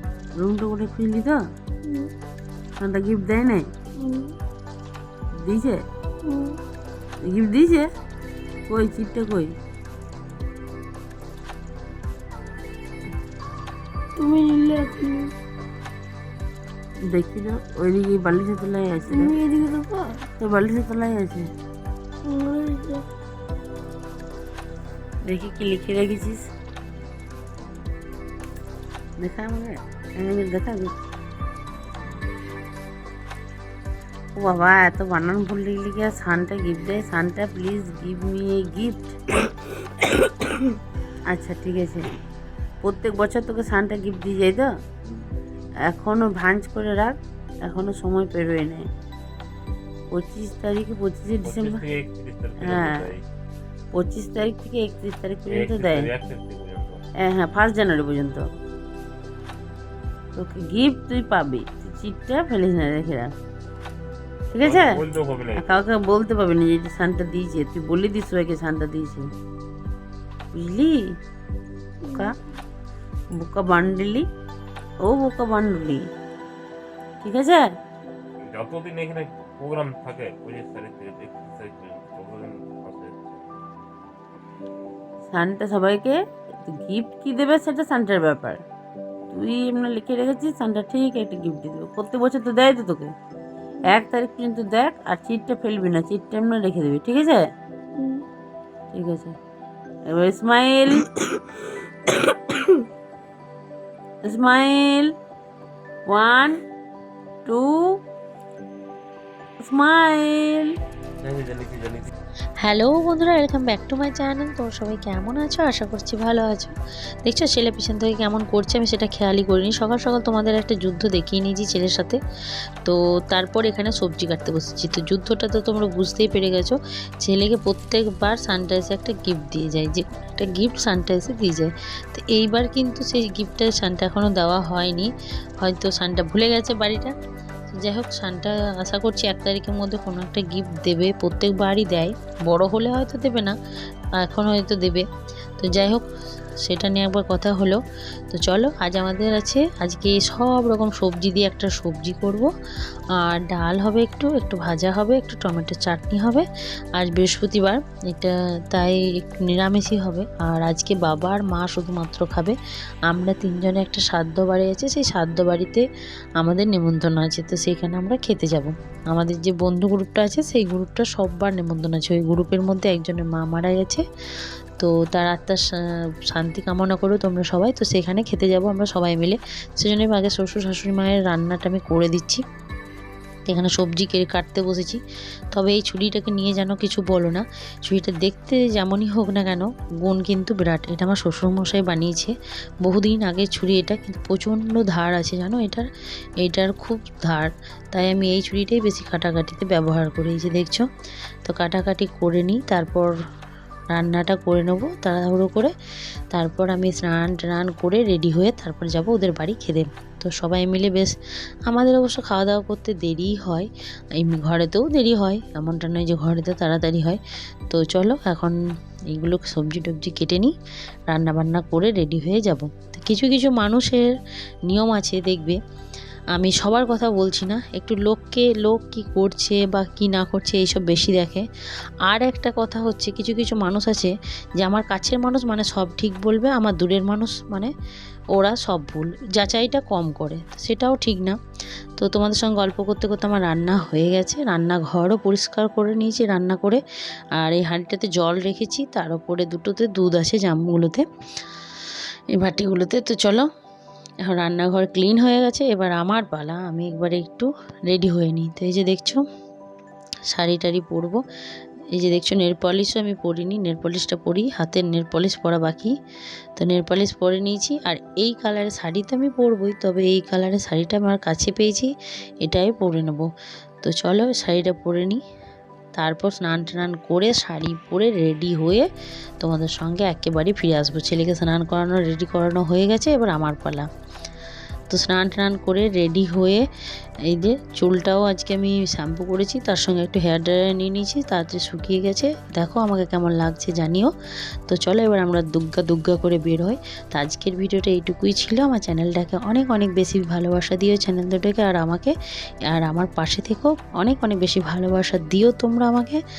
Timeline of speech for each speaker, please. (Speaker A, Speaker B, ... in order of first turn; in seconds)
Speaker A: 0.4-1.4, 2.8-3.6, 5.4-5.8, 7.2-7.9, 8.7-9.5, 17.1-19.3, 20.4-21.5, 25.3-26.4, 29.2-30.9, 34.3-39.2, 41.3-42.1, 42.8-44.7, 45.9-48.8, 50.1-51.8, 52.6-53.0, 53.9-56.1, 57.2-58.4, 60.4-63.3, 64.5-65.0, 65.6-69.2, 70.5-71.0, 73.4-74.2, 75.0-76.0, 77.2-77.7, 85.3-88.6, 89.3-93.1, 93.9-97.4, 98.9-99.3, 100.1-101.1, 104.2-105.1, 106.1-106.6, 107.5-108.0, 109.6-110.7
Speaker B: 1.8-2.1, 4.0-4.3, 6.2-6.6, 14.2-15.3, 19.1-20.2, 22.2-23.0, 72.0-72.4, 98.0-98.2
Speaker C: 51.4-53.2, 55.5-57.0, 64.5-65.7, 78.4-83.2, 111.2-112.1
Speaker D: 112.6-122.2, 122.8-135.1, 135.6-137.1, 137.7-143.5, 144.2-145.1, 145.6-146.0, 146.6-147.8, 148.3-152.5, 153.2-162.6, 163.1-165.8, 166.4-174.0, 174.8-182.4, 183.5-185.0, 185.5-195.8, 196.4-200.8, 201.4-203.1, 203.9-205.7, 206.3-211.1, 211.7-218.6, 219.1-220.5, 221.1-224.1, 224.7-225.6, 226.3-231.4, 232.0-237.7, 238.3-241.4, 242.0-246.8, 247.4-253.5, 254.2-259.2, 260.3-261.2, 261.9-265.9, 266.6-271.9, 272.4-273.2, 273.8-275.2, 275.9-278.9, 279.4-283.9, 284.9-286.6, 287.3-294.1, 294.7-302.1, 302.7-306.2